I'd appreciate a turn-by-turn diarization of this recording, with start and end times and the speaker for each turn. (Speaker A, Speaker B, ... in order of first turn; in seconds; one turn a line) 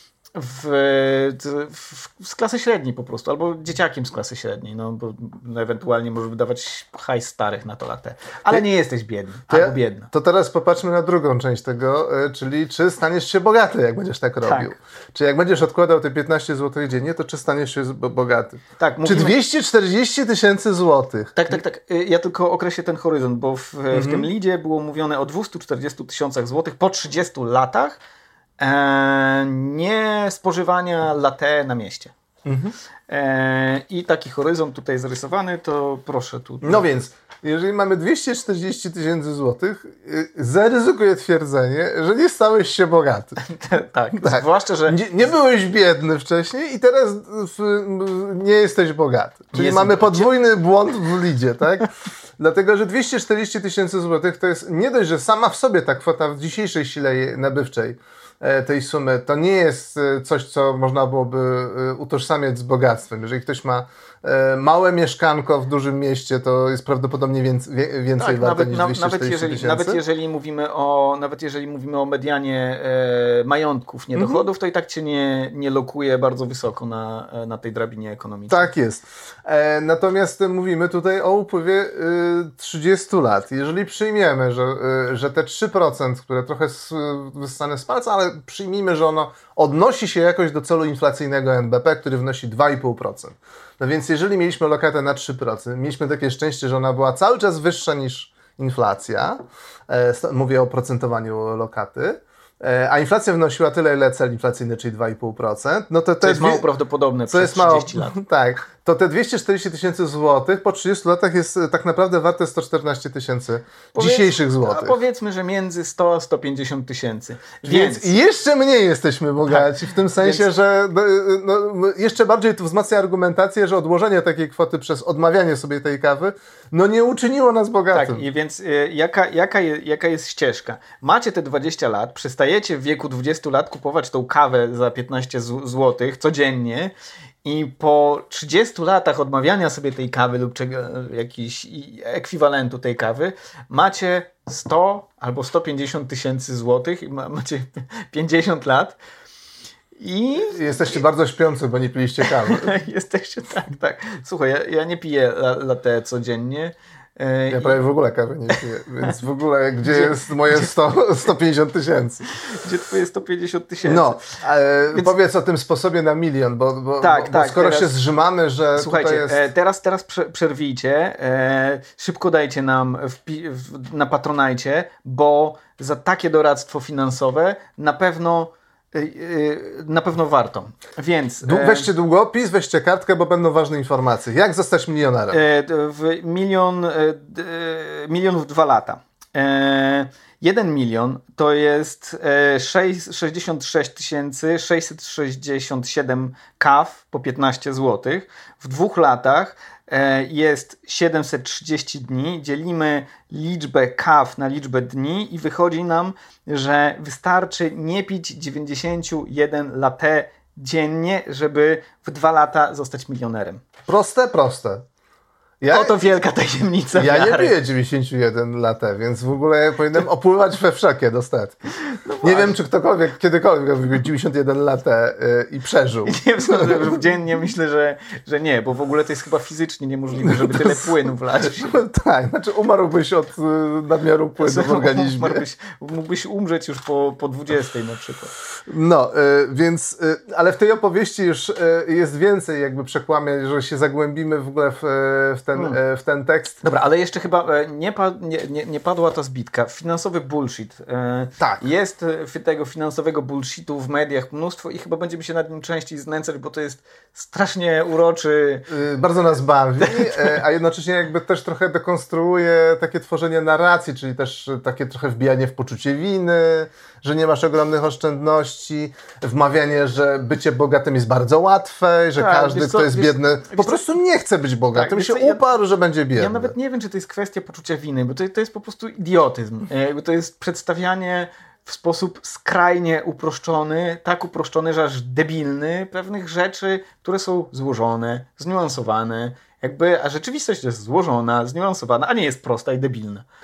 Speaker A: 0.3-10.1
Speaker B: 9.5-21.6
Speaker A: 14.4-14.8
Speaker A: 18.8-19.4
Speaker A: 21.4-28.0
Speaker B: 23.9-24.3
Speaker A: 28.6-32.1
Speaker B: 32.5-32.7
Speaker A: 33.1-36.9
Speaker B: 36.6-43.4
Speaker A: 43.4-45.0
Speaker B: 44.2-51.9
Speaker A: 49.5-50.3
Speaker B: 52.4-70.0
Speaker A: 68.2-78.7
Speaker B: 74.2-74.4
Speaker B: 78.5-106.7
Speaker A: 106.2-108.1
Speaker B: 107.3-115.0
Speaker A: 113.9-118.1
Speaker B: 117.6-128.2
Speaker A: 119.5-120.4
Speaker A: 127.9-136.9
Speaker A: 137.4-149.0
Speaker A: 149.9-150.8
Speaker B: 150.4-152.7
Speaker A: 152.2-157.8
Speaker B: 157.5-162.2
Speaker A: 159.8-160.7
Speaker A: 162.4-164.3
Speaker B: 163.9-169.4
Speaker A: 167.0-168.0
Speaker A: 168.8-181.9
Speaker B: 181.4-185.4
Speaker A: 185.3-213.6
Speaker B: 213.9-214.8
Speaker B: 215.6-215.9
Speaker A: 215.7-217.6
Speaker B: 216.9-221.6
Speaker A: 221.8-222.6
Speaker B: 222.2-227.1
Speaker A: 226.1-231.8
Speaker B: 230.2-230.9
Speaker B: 231.6-235.4
Speaker A: 234.4-238.3
Speaker B: 238.7-246.6
Speaker A: 246.6-258.7
Speaker B: 251.4-251.7
Speaker B: 258.7-276.5
Speaker A: 259.8-260.4
Speaker A: 272.2-274.0
Speaker A: 274.7-275.4
Speaker A: 276.1-293.2